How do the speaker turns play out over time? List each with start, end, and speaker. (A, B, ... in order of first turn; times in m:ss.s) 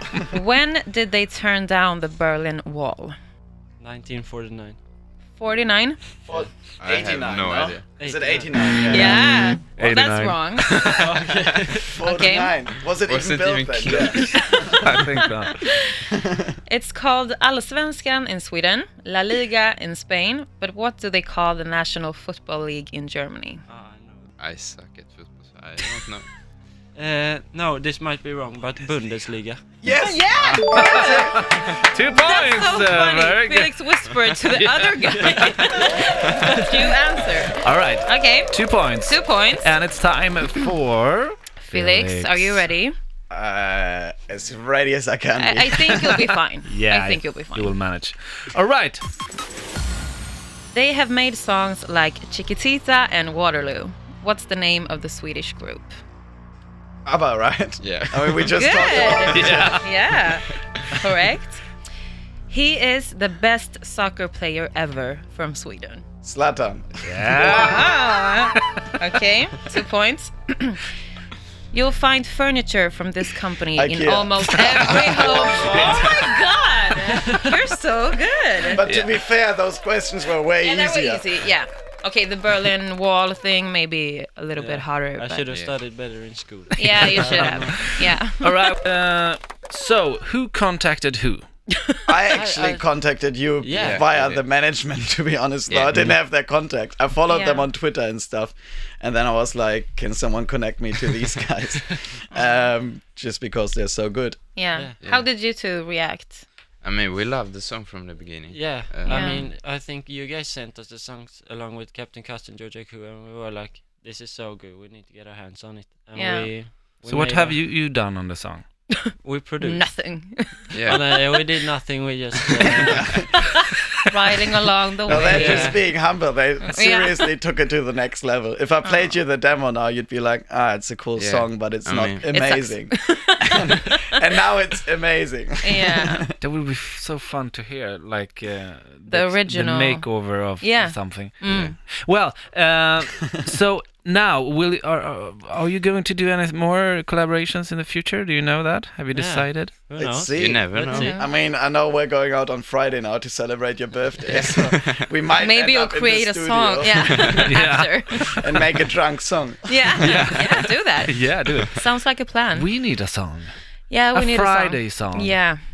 0:00.3-0:03.1 A
0:03.8-0:04.8 B
0:05.4-0:06.2 A
0:06.2-0:09.4 C
0:06.8-0:07.9 D
0:08.0-0:08.6 B
0:08.8-0:10.8 A
0:09.1-0:11.0 E
0:10.8-0:11.9 B
0:11.9-0:14.8 C
0:12.0-0:12.6 A
0:13.0-0:14.6 D
0:14.2-0:16.0 A
0:14.8-0:15.6 E
0:16.7-0:23.6 A
0:23.7-0:24.3 B
0:24.4-0:26.3 D
0:26.9-0:29.8 B
0:29.8-0:31.4 C
0:29.9-0:39.8 A
0:30.8-0:33.7 E
0:34.4-0:35.6 E
0:35.2-0:36.5 B
0:37.6-0:42.7 E
0:41.6-0:42.9 A
0:43.3-0:45.9 C
0:45.4-0:47.8 A
0:45.9-0:49.0 E
0:50.7-0:55.9 A
0:57.0-0:59.9 C
0:57.8-0:59.0 D
0:58.5-1:01.6 A
0:59.3-0:59.8 E
1:02.5-1:06.0 A
1:06.2-1:07.6 C
1:07.0-1:07.9 E
1:07.4-1:10.9 A
1:11.7-1:18.8 A
1:13.7-1:16.1 C
1:15.6-1:16.0 B
1:17.1-1:17.4 B
1:18.7-1:21.3 C
1:18.8-1:19.1 E
1:20.6-1:25.5 A
1:24.6-1:28.0 B
1:25.5-1:25.8 D
1:26.8-1:28.6 A
1:27.4-1:31.4 E
1:32.1-1:44.5 C
1:32.3-1:33.1 B
1:33.6-1:34.1 B
1:33.8-1:34.4 D
1:35.7-1:36.1 D
1:37.3-1:37.7 A
1:44.6-1:46.4 A
1:44.7-1:45.0 B
1:45.0-1:45.3 D
1:46.8-1:49.3 D
1:48.5-1:57.6 B
1:49.0-1:49.5 A
1:56.1-1:56.6 A
1:57.1-1:58.6 E
1:59.1-2:01.2 A
1:59.2-2:03.3 B
2:00.7-2:01.1 D
2:02.9-2:03.2 C
2:04.0-2:05.9 A
2:05.1-2:05.9 B
2:05.1-2:16.2 C
2:06.6-2:07.3 A
2:08.8-2:09.2 A
2:11.1-2:12.4 D
2:12.3-2:14.1 A
2:15.6-2:16.3 A
2:16.4-2:29.8 E
2:19.1-2:21.8 A
2:21.4-2:21.8 D
2:29.1-2:31.1 B
2:30.0-2:37.4 C
2:30.4-2:31.2 D
2:30.9-2:31.3 A
2:34.3-2:35.0 D
2:35.4-2:38.6 A
2:37.0-2:37.6 D
2:37.5-2:38.2 E
2:38.2-2:40.1 C
2:39.6-2:42.8 A
2:40.0-2:42.0 E
2:41.3-2:41.6 D
2:42.5-2:45.4 E
2:43.9-2:45.6 A